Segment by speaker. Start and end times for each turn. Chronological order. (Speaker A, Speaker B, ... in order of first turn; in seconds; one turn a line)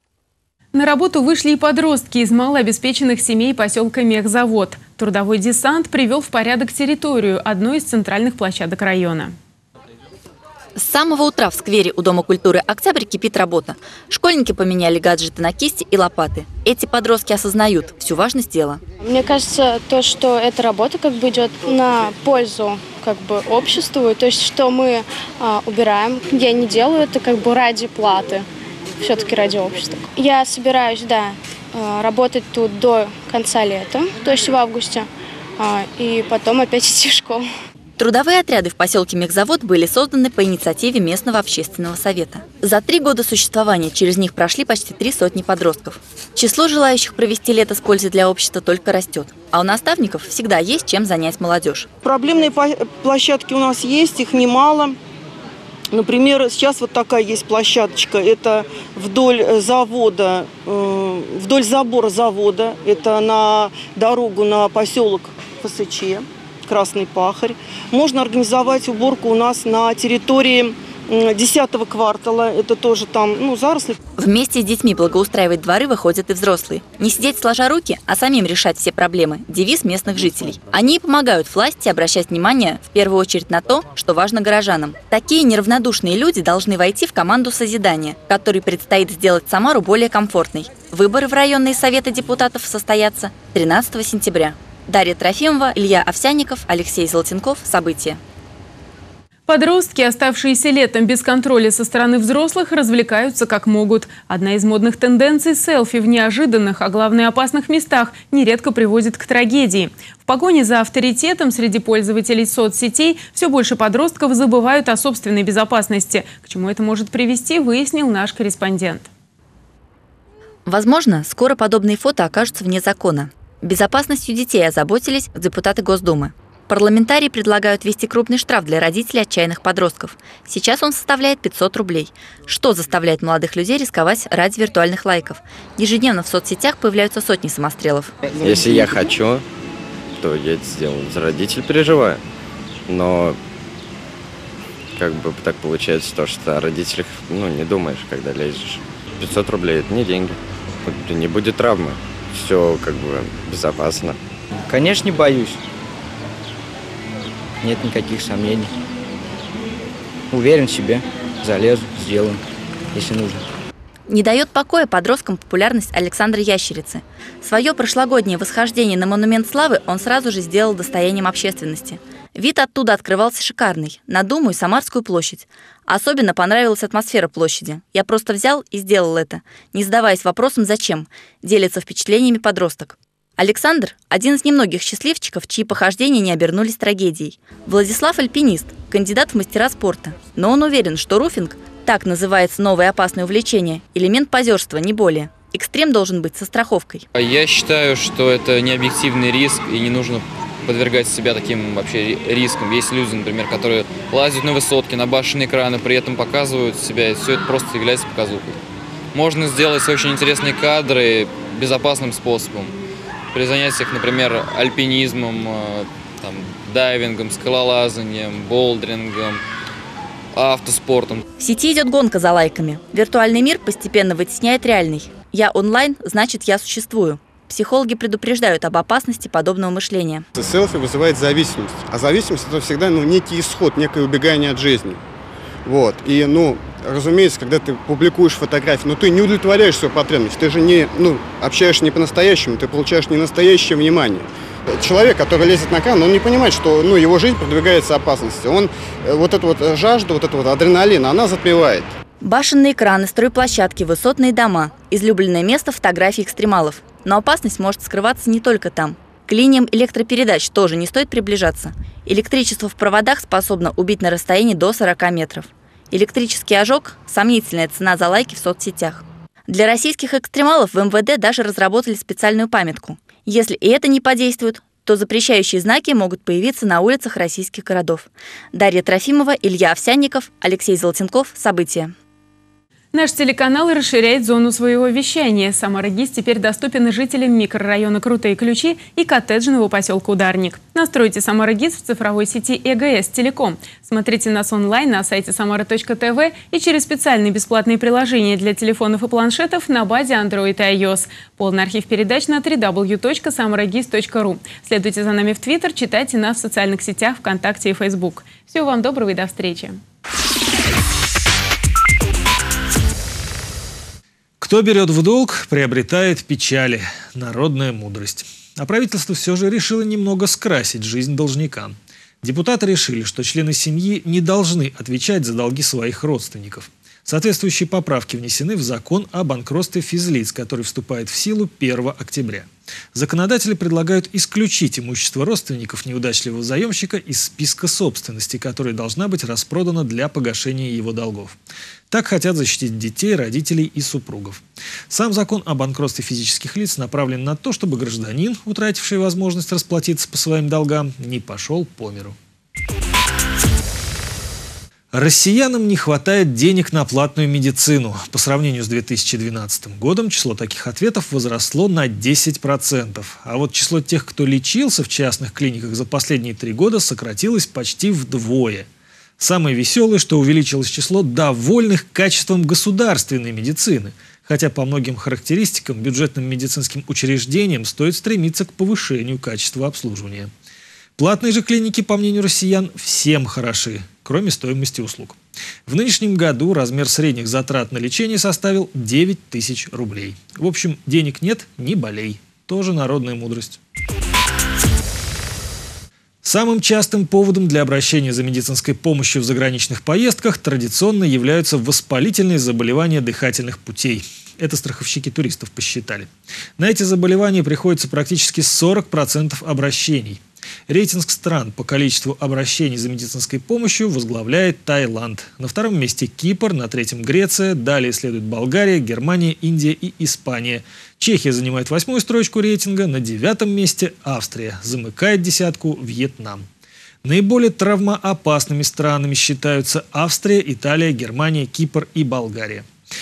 Speaker A: 0.7-9.3
Speaker B: 10.8-18.8
Speaker C: 19.0-28.4
Speaker C: 29.0-37.4
Speaker B: 38.0-51.9
Speaker D: 52.0-55.0
Speaker D: 55.9-73.9
Speaker B: 74.2-98.2
Speaker A: 99.5-119.1
Speaker B: 120.7-138.1
Speaker E: 138.4-139.4
Speaker E: 140.2-142.2
Speaker E: 142.9-143.4
Speaker E: 144.9-154.2
Speaker F: 154.7-155.5
Speaker F: 157.7-158.6
Speaker F: 160.3-160.9
Speaker F: 161.5-162.3
Speaker F: 163.0-163.3
Speaker B: 164.1-197.0
Speaker G: 197.1-208.6
Speaker G: 209.1-212.7
Speaker G: 213.3-219.4
Speaker G: 220.3-221.2
Speaker B: 221.4-230.2
Speaker H: 230.3-235.0
Speaker H: 235.7-251.9
Speaker B: 252.2-281.9
Speaker A: 282.9-309.8
Speaker I: 314.4-341.4
Speaker I: 341.9-352.1
Speaker I: 354.9-368.7
Speaker I: 369.2-380.3
Speaker I: 380.9-393.6
Speaker I: 396.2-426.4
Speaker I: 427.0-432.7